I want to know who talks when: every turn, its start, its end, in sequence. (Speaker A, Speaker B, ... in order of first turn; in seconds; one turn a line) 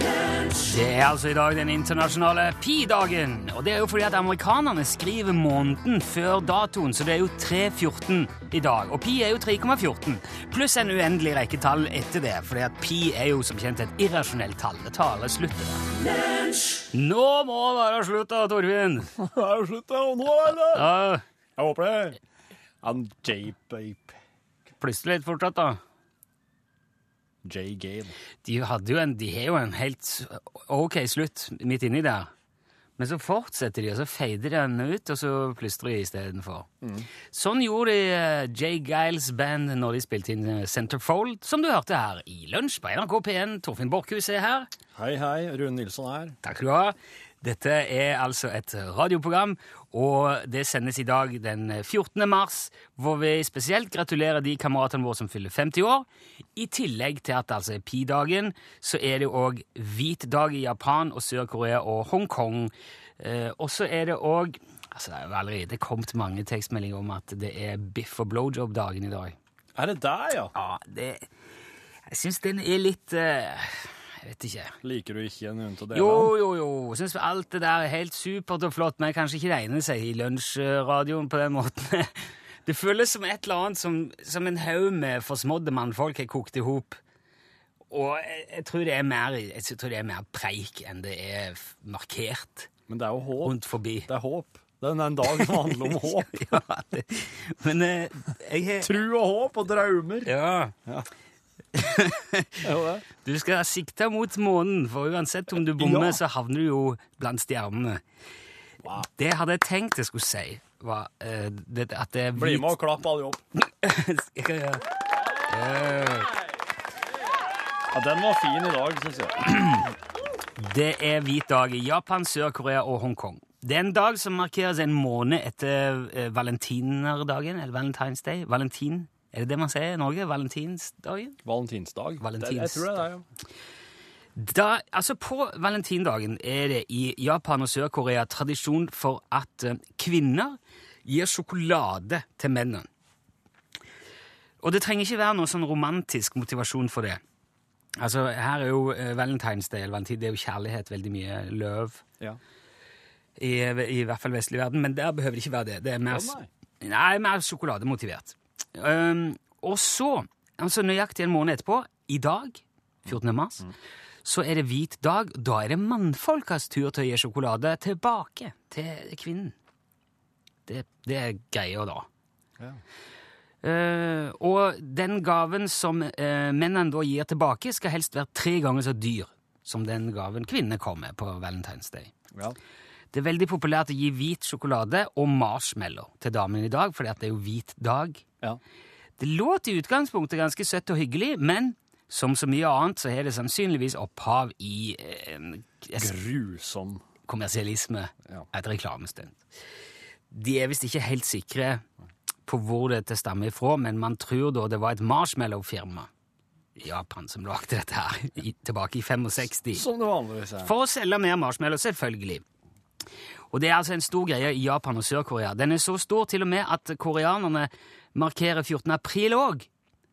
Speaker A: 0.6-15.8
Speaker A: 16.9-19.1
Speaker B: 19.1-20.9
Speaker A: 20.6-21.2
Speaker B: 21.6-22.2
Speaker B: 22.8-24.1
Speaker A: 24.8-25.8
Speaker B: 27.4-28.1
Speaker A: 28.4-32.3
Speaker A: 33.0-36.7
Speaker B: 36.8-37.1
Speaker A: 37.2-44.7
Speaker B: 45.0-46.4
Speaker A: 46.4-69.3
Speaker B: 69.8-70.5
Speaker A: 70.5-71.3
Speaker A: 72.1-74.8
Speaker B: 74.8-76.3
Speaker A: 75.9-87.0
Speaker A: 87.9-92.7
Speaker B: 92.9-96.5
Speaker A: 93.4-94.1
Speaker A: 95.2-99.0
Speaker B: 98.8-100.3
Speaker A: 100.2-100.7
Speaker A: 101.7-102.5
Speaker B: 102.6-103.0
Speaker A: 103.2-108.0
Speaker B: 105.6-106.2
Speaker B: 108.8-109.1
Speaker A: 109.0-112.8
Speaker B: 112.3-113.4
Speaker A: 113.8-114.8
Speaker A: 115.5-116.3
Speaker B: 117.9-119.8
Speaker A: 120.6-131.4
Speaker B: 131.4-133.2
Speaker A: 132.2-133.0
Speaker A: 134.3-142.9
Speaker A: 144.6-147.2
Speaker A: 148.0-152.0
Speaker A: 153.4-163.7
Speaker B: 156.1-156.5
Speaker B: 163.1-163.7
Speaker A: 164.2-169.5
Speaker A: 170.7-172.1
Speaker A: 173.6-182.1
Speaker A: 183.1-188.2
Speaker A: 189.2-196.1
Speaker B: 196.0-197.0
Speaker A: 197.3-199.4
Speaker A: 200.3-201.8
Speaker A: 202.4-206.1
Speaker A: 206.8-209.8
Speaker B: 209.7-210.7
Speaker A: 210.6-212.4
Speaker A: 213.5-219.7